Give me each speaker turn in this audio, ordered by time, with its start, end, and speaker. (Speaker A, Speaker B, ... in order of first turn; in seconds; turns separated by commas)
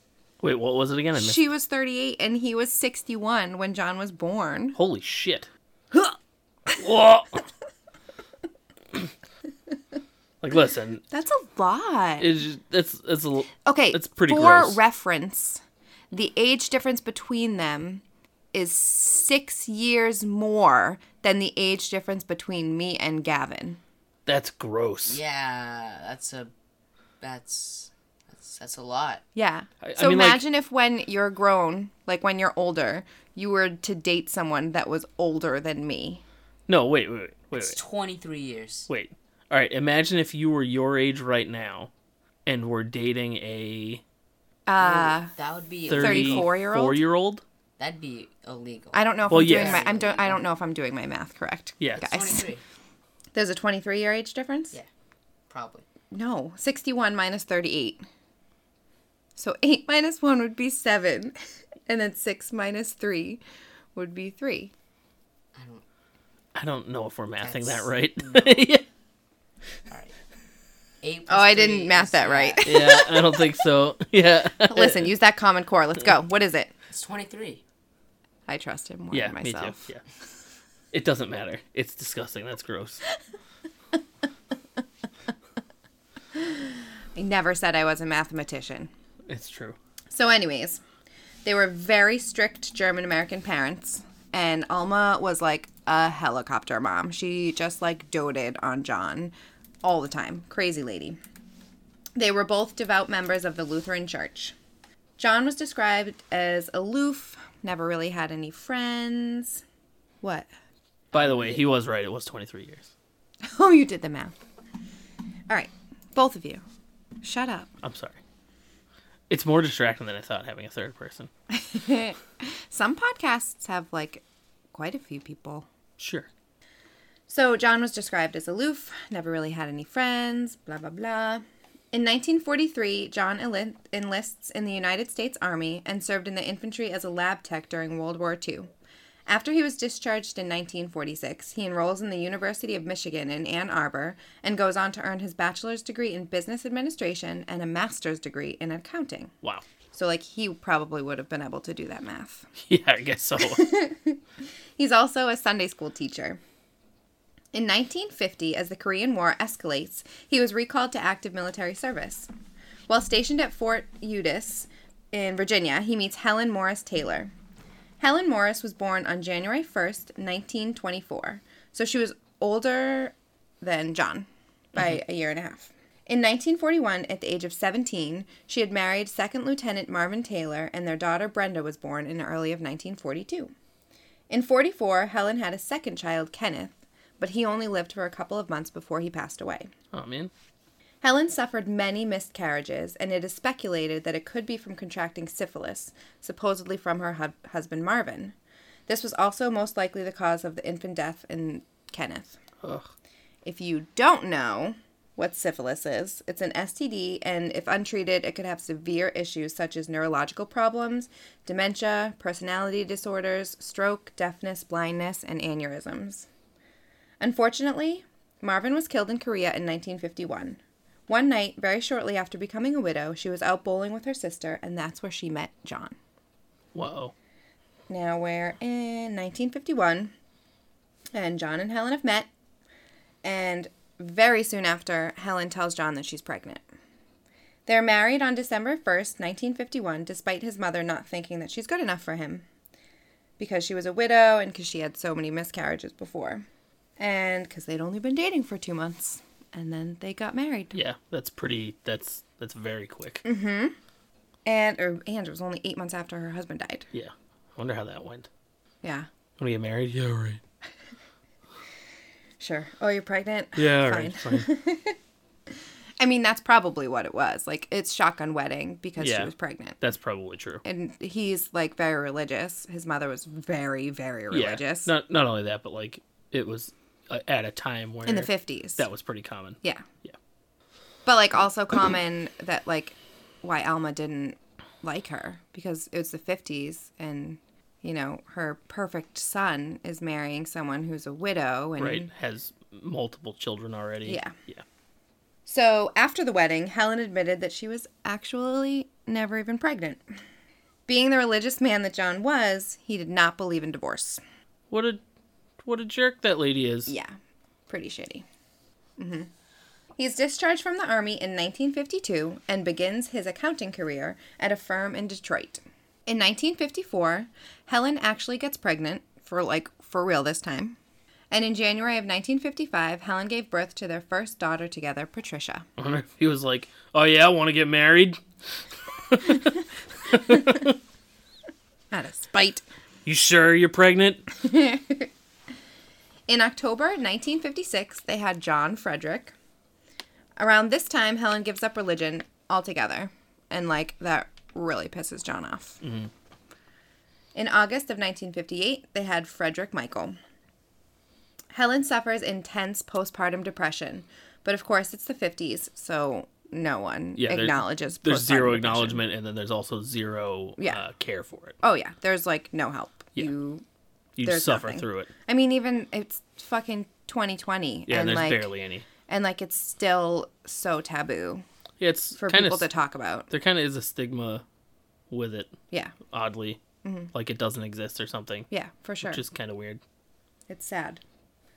Speaker A: 0.4-1.4, Speaker B: 1.1-4.8, Speaker A: 4.7-5.5, Speaker A: 6.8-7.4, Speaker A: 10.4-11.0, Speaker B: 11.1-12.3, Speaker A: 12.2-14.8, Speaker B: 13.6-15.6, Speaker B: 16.1-23.8, Speaker A: 24.2-25.2, Speaker C: 25.1-26.5, Speaker C: 27.2-29.2, Speaker B: 29.3-36.2, Speaker A: 29.8-30.4, Speaker A: 36.7-37.8, Speaker C: 37.5-38.9, Speaker A: 38.9-41.9, Speaker A: 42.5-44.0, Speaker B: 44.7-45.3, Speaker C: 44.8-46.5, Speaker A: 45.9-47.4, Speaker B: 45.9-47.0, Speaker C: 47.8-50.4, Speaker B: 48.9-52.5, Speaker A: 49.3-49.8, Speaker A: 51.8-52.1, Speaker C: 52.0-52.6, Speaker B: 53.3-54.8, Speaker C: 55.5-55.8, Speaker B: 56.1-58.0, Speaker B: 59.4-63.4, Speaker B: 63.9-64.7, Speaker C: 65.5-65.8, Speaker A: 66.5-68.8, Speaker C: 67.4-68.6, Speaker C: 69.9-70.2, Speaker C: 71.0-72.7, Speaker B: 71.3-73.4, Speaker A: 72.6-75.1, Speaker B: 74.7-76.7, Speaker C: 76.9-77.6, Speaker B: 78.5-79.8, Speaker A: 79.1-80.0, Speaker A: 80.9-83.0, Speaker B: 86.3-88.9, Speaker A: 89.3-89.8, Speaker B: 90.1-90.8, Speaker B: 91.4-101.2, Speaker B: 102.2-104.5, Speaker B: 105.2-109.6, Speaker B: 110.2-110.5, Speaker C: 111.1-111.6, Speaker A: 111.1-112.9, Speaker B: 113.4-114.3, Speaker B: 115.5-116.6, Speaker B: 117.2-117.7, Speaker A: 117.8-118.2, Speaker A: 119.3-121.3, Speaker B: 121.5-125.7, Speaker A: 126.0-126.3, Speaker B: 127.3-138.7, Speaker B: 139.3-149.3, Speaker B: 149.9-152.5, Speaker A: 152.6-153.7, Speaker B: 153.4-154.2, Speaker B: 154.8-156.4, Speaker B: 157.5-162.3, Speaker B: 162.9-167.3, Speaker B: 168.0-183.5, Speaker B: 184.3-189.7, Speaker A: 189.9-190.3, Speaker B: 191.0-198.3, Speaker B: 198.9-202.4, Speaker A: 202.6-202.9, Speaker B: 203.4-216.3, Speaker B: 217.2-225.9, Speaker A: 226.7-227.1, Speaker B: 227.9-230.1, Speaker B: 231.1-232.3, Speaker B: 233.2-236.6, Speaker B: 237.7-242.4, Speaker B: 243.4-246.4, Speaker B: 247.0-250.8, Speaker A: 250.7-253.2, Speaker B: 253.2-253.7, Speaker B: 254.4-256.9, Speaker A: 256.9-258.3, Speaker B: 258.8-259.1, Speaker A: 259.4-260.4, Speaker B: 262.4-264.9, Speaker A: 263.6-264.5, Speaker B: 266.0-269.8, Speaker A: 269.0-270.6, Speaker B: 270.6-274.9, Speaker A: 274.3-280.1, Speaker B: 278.1-278.8, Speaker B: 281.1-292.1, Speaker A: 291.8-294.6, Speaker B: 294.0-294.4, Speaker B: 295.4-300.0, Speaker B: 300.9-304.2, Speaker A: 304.7-305.0, Speaker A: 305.6-306.9, Speaker B: 306.9-307.1, Speaker B: 307.7-308.2, Speaker B: 309.0-309.3, Speaker B: 310.0-320.8, Speaker B: 321.3-325.6, Speaker A: 325.8-328.2, Speaker A: 329.0-330.8, Speaker B: 331.9-332.6, Speaker A: 333.0-334.2, Speaker B: 334.4-335.1, Speaker B: 336.3-339.3, Speaker B: 340.4-345.8, Speaker A: 345.8-346.1, Speaker B: 347.3-350.1, Speaker B: 351.5-359.0, Speaker A: 357.2-361.6, Speaker B: 361.6-363.6, Speaker A: 364.2-365.1, Speaker B: 364.2-368.5, Speaker A: 367.9-368.9, Speaker B: 369.1-371.4, Speaker A: 371.8-372.7, Speaker B: 372.1-373.3, Speaker A: 373.3-374.4, Speaker A: 375.1-375.5, Speaker A: 376.1-376.6, Speaker B: 376.8-377.1, Speaker A: 377.1-378.5, Speaker B: 378.5-379.2, Speaker A: 379.0-379.8, Speaker B: 380.5-381.0